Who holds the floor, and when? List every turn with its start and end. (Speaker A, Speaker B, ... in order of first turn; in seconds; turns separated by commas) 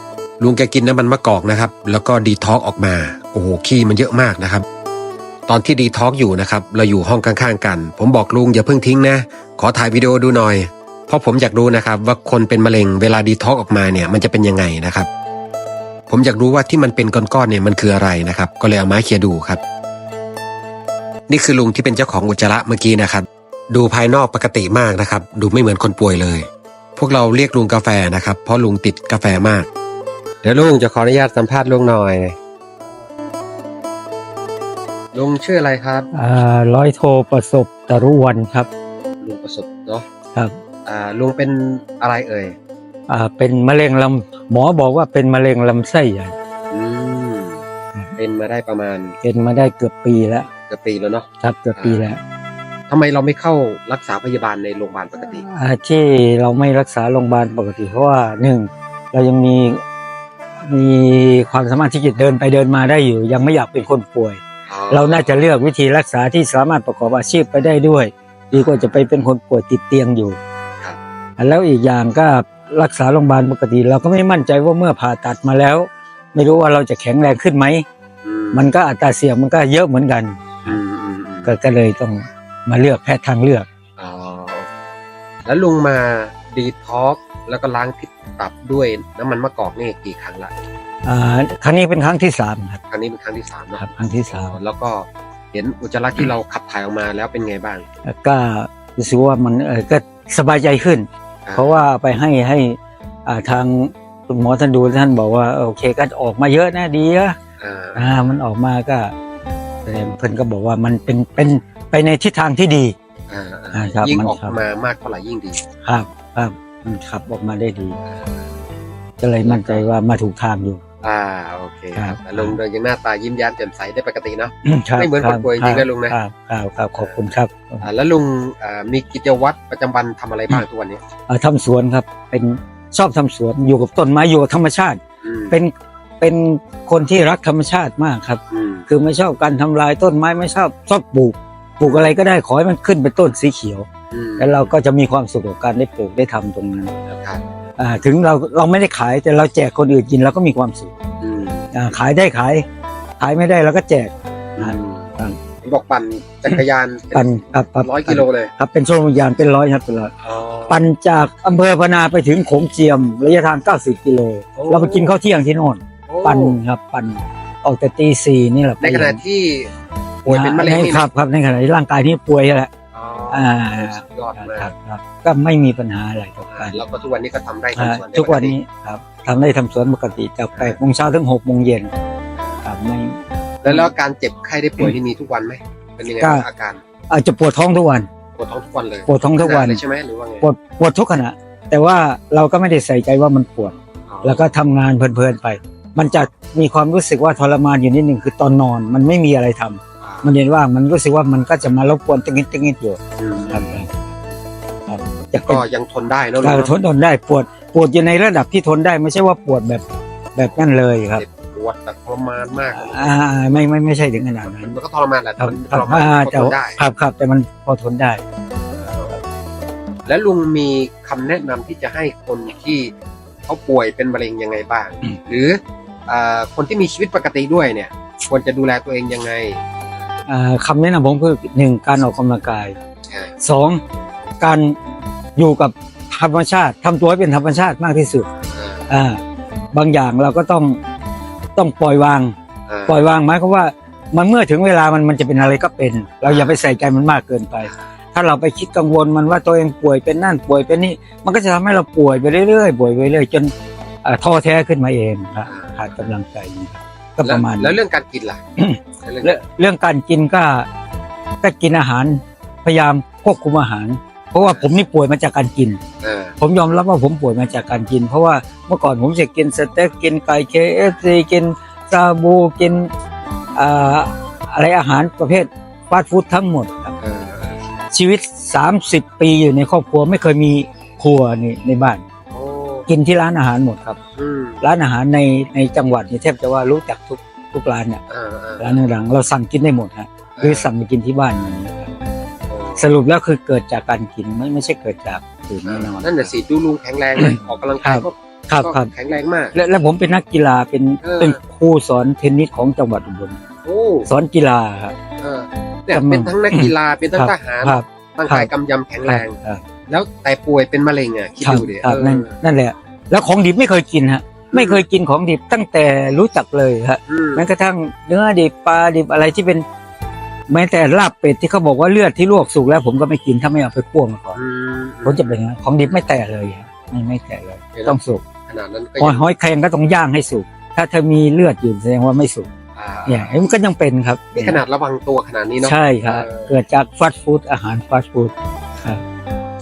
Speaker A: 0.4-4.6, Speaker A: 5.5-15.1, Speaker A: 16.1-19.6, Speaker A: 21.3-29.7, Speaker A: 30.4-32.4, Speaker A: 35.1-36.1, Speaker B: 36.1-38.7, Speaker A: 39.2-40.0, Speaker A: 40.8-42.5, Speaker B: 43.1-46.4, Speaker A: 46.7-47.6, Speaker A: 48.1-49.2, Speaker B: 49.2-50.5, Speaker A: 50.6-52.0, Speaker B: 51.4-52.2, Speaker A: 52.9-55.5, Speaker B: 55.4-59.8, Speaker B: 60.6-70.4, Speaker A: 64.7-65.4, Speaker A: 68.5-69.2, Speaker B: 71.4-77.8, Speaker A: 78.2-78.7, Speaker B: 78.5-80.7, Speaker A: 80.7-81.6, Speaker B: 81.4-83.7, Speaker A: 84.0-84.7, Speaker A: 85.4-90.5, Speaker B: 91.0-92.8, Speaker A: 92.9-97.8, Speaker B: 93.8-94.5, Speaker B: 98.0-107.4, Speaker A: 101.4-101.8, Speaker A: 107.6-108.1, Speaker B: 108.0-109.1, Speaker B: 109.8-112.9, Speaker A: 113.3-115.6, Speaker B: 113.7-114.6, Speaker B: 115.8-118.0, Speaker A: 118.0-118.4, Speaker B: 119.2-120.8, Speaker A: 119.4-119.8, Speaker A: 121.0-126.2, Speaker B: 122.0-122.6, Speaker B: 124.6-127.8, Speaker A: 127.0-127.2, Speaker A: 127.8-131.0, Speaker B: 131.3-135.0, Speaker A: 135.2-135.6, Speaker B: 135.5-143.9, Speaker A: 138.5-138.9, Speaker A: 141.8-142.1, Speaker A: 144.1-144.7, Speaker B: 144.4-146.9, Speaker A: 147.1-147.4, Speaker B: 147.8-150.9, Speaker A: 151.2-151.7, Speaker B: 151.7-152.7, Speaker B: 153.2-155.4, Speaker A: 154.5-158.5, Speaker B: 157.1-160.1, Speaker A: 160.2-160.8, Speaker B: 160.7-169.2, Speaker A: 164.5-165.1, Speaker A: 166.1-166.6, Speaker A: 168.8-169.7, Speaker A: 170.2-171.1, Speaker B: 170.2-172.7, Speaker A: 172.9-174.7, Speaker B: 173.3-176.8, Speaker A: 176.5-178.6, Speaker B: 177.8-181.9, Speaker B: 182.6-183.2, Speaker A: 183.6-186.8, Speaker B: 187.1-188.1, Speaker A: 188.3-190.5, Speaker B: 189.1-189.8, Speaker B: 190.4-204.0, Speaker A: 194.1-194.5, Speaker A: 200.0-200.3, Speaker A: 203.2-203.8, Speaker B: 204.9-205.6, Speaker A: 205.4-206.7, Speaker B: 206.4-209.8, Speaker B: 210.3-211.2, Speaker A: 211.1-213.2, Speaker B: 212.7-214.8, Speaker A: 214.4-216.8, Speaker B: 215.4-218.2, Speaker A: 218.8-219.2, Speaker A: 220.1-222.9, Speaker A: 223.5-229.6, Speaker B: 230.3-232.8, Speaker A: 233.1-233.3, Speaker B: 233.4-233.8, Speaker B: 234.4-234.8, Speaker B: 235.3-238.3, Speaker A: 238.5-238.9, Speaker B: 238.9-239.2, Speaker B: 239.7-240.8, Speaker B: 241.5-242.3, Speaker A: 242.7-243.0, Speaker B: 242.9-253.5, Speaker A: 246.2-246.6, Speaker B: 254.0-257.8, Speaker A: 255.4-256.1, Speaker A: 257.2-258.4, Speaker B: 258.6-260.7, Speaker A: 259.0-259.4, Speaker B: 261.4-265.8, Speaker A: 264.4-264.7, Speaker A: 266.0-266.4, Speaker B: 266.4-272.9, Speaker B: 273.5-276.9, Speaker A: 277.0-277.6, Speaker B: 277.9-282.0, Speaker A: 282.3-282.9, Speaker B: 282.9-284.0, Speaker A: 284.1-284.6, Speaker B: 284.6-288.0, Speaker A: 288.1-288.8, Speaker B: 288.6-291.9, Speaker A: 290.3-290.7, Speaker A: 292.5-292.9, Speaker B: 292.8-296.3, Speaker A: 295.6-299.6, Speaker B: 297.1-298.9, Speaker B: 299.5-303.4, Speaker A: 301.0-301.4, Speaker A: 303.6-304.1, Speaker B: 304.1-305.0, Speaker A: 305.2-312.4, Speaker B: 305.9-308.5, Speaker B: 309.0-309.6, Speaker B: 311.4-319.6, Speaker A: 314.5-314.8, Speaker A: 317.1-317.5, Speaker B: 320.5-324.4, Speaker A: 324.3-326.0, Speaker B: 325.1-328.2, Speaker A: 327.7-329.3, Speaker B: 329.0-332.5, Speaker A: 332.7-333.4, Speaker B: 333.1-334.6, Speaker A: 334.3-336.5, Speaker B: 335.6-339.0